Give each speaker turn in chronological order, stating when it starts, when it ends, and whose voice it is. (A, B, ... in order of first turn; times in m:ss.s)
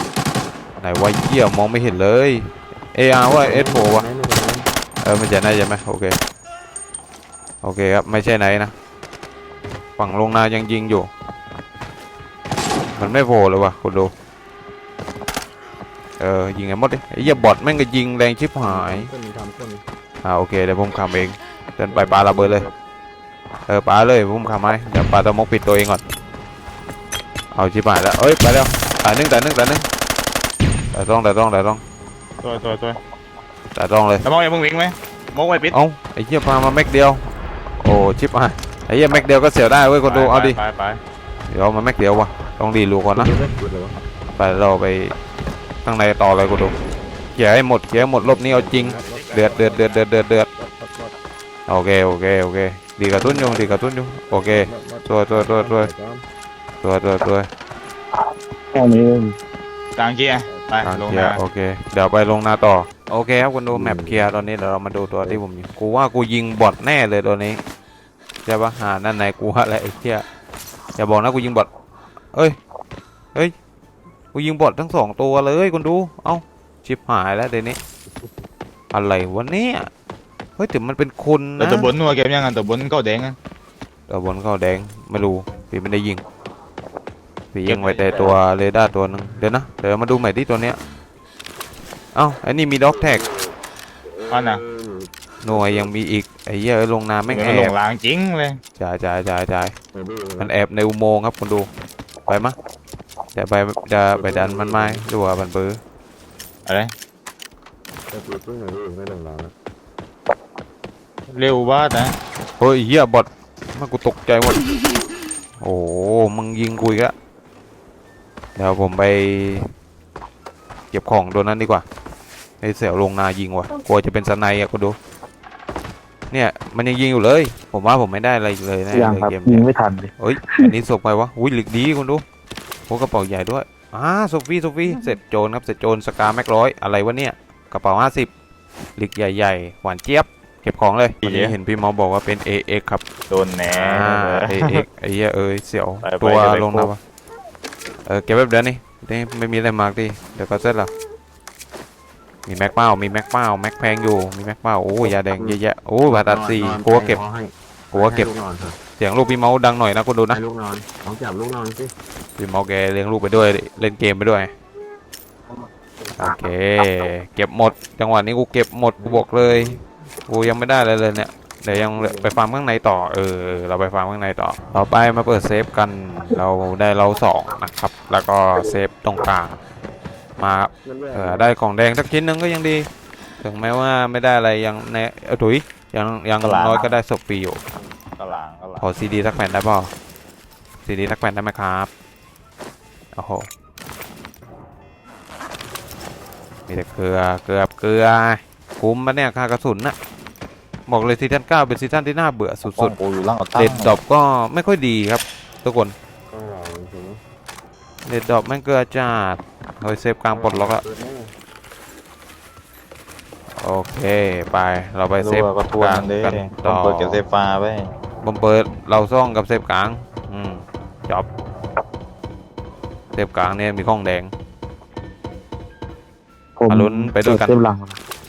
0:00.8-0:04.1 A
0:03.3-0:04.7 B
0:05.0-0:06.1 A
0:07.6-0:08.7 A
0:10.0-0:11.1 A
0:13.0-0:14.1 A
0:16.2-0:19.1 A
0:18.6-0:19.8 B
0:20.2-0:22.7 A
0:21.9-0:22.7 B
0:23.7-0:26.0 A
0:27.5-0:29.9 A
0:30.9-0:31.8 A
0:32.4-0:33.0 C
0:33.8-0:34.2 A
0:34.2-0:35.8 C
0:35.7-0:37.2 A
0:37.8-0:40.6 A
0:40.0-0:41.0 C
0:41.5-0:43.4 A
0:43.2-0:44.0 B
0:44.4-0:45.1 A
0:45.8-0:46.8 A
0:47.4-0:50.5 A
0:48.2-0:49.8 B
0:48.8-0:50.1 C
0:50.6-0:51.2 B
0:51.7-0:55.9 A
0:53.1-0:53.8 B
0:54.3-0:56.2 B
0:56.8-0:57.5 A
0:58.7-0:59.4 D
1:00.0-1:01.4 C
1:00.8-1:07.6 A
1:03.7-1:04.4 B
1:08.4-1:10.2 A
1:11.0-1:11.7 A
1:14.3-1:17.8 A
1:18.9-1:19.9 A
1:20.6-1:21.9 A
1:21.6-1:23.4 C
1:24.1-1:26.2 A
1:27.5-1:30.8 A
1:27.7-1:28.4 C
1:32.1-1:33.2 A
1:33.0-1:33.5 B
1:34.1-1:35.6 B
1:34.3-1:34.6 C
1:35.4-1:37.8 A
1:37.3-1:38.6 C
1:38.8-1:39.8 A
1:39.9-1:40.5 B
1:40.4-1:41.7 A
1:42.3-1:42.6 A
1:43.4-1:45.8 A
1:44.2-1:45.1 B
1:46.7-1:46.9 C
1:48.1-1:49.5 B
1:51.3-1:52.2 C
1:52.6-1:54.7 A
1:55.6-1:57.1 A
1:58.6-1:59.6 A
2:00.9-2:01.8 A
2:02.6-2:05.0 A
2:06.3-2:09.7 A
2:08.9-2:10.7 D
2:10.2-2:12.2 A
2:12.9-2:18.3 A
2:19.0-2:23.0 A
2:21.2-2:21.6 C
2:23.3-2:24.8 C
2:23.7-2:27.0 A
2:26.0-2:26.9 C
2:28.1-2:30.9 A
2:32.5-2:37.2 A
2:35.0-2:38.8 B
2:37.9-2:38.3 A
2:39.0-2:40.4 A
2:40.3-2:41.9 B
2:42.4-2:44.5 A
2:46.2-2:59.6 A
2:49.0-2:49.8 B
2:51.7-2:52.4 B
3:00.4-3:02.9 A
3:00.8-3:01.5 B
3:03.4-3:07.6 A
3:06.4-3:07.0 C
3:08.2-3:08.9 C
3:08.8-3:09.9 A
3:10.8-3:11.9 A
3:13.2-3:13.5 A
3:16.7-3:20.0 A
3:20.9-3:23.0 A
3:22.7-3:24.0 C
3:23.6-3:25.9 A
3:26.3-3:27.2 B
3:28.1-3:30.8 A
3:30.3-3:31.3 B
3:33.6-3:37.2 A
3:35.2-3:37.9 C
3:38.2-3:41.3 A
3:43.1-3:44.3 A
3:46.6-3:48.0 D
3:46.7-3:47.6 A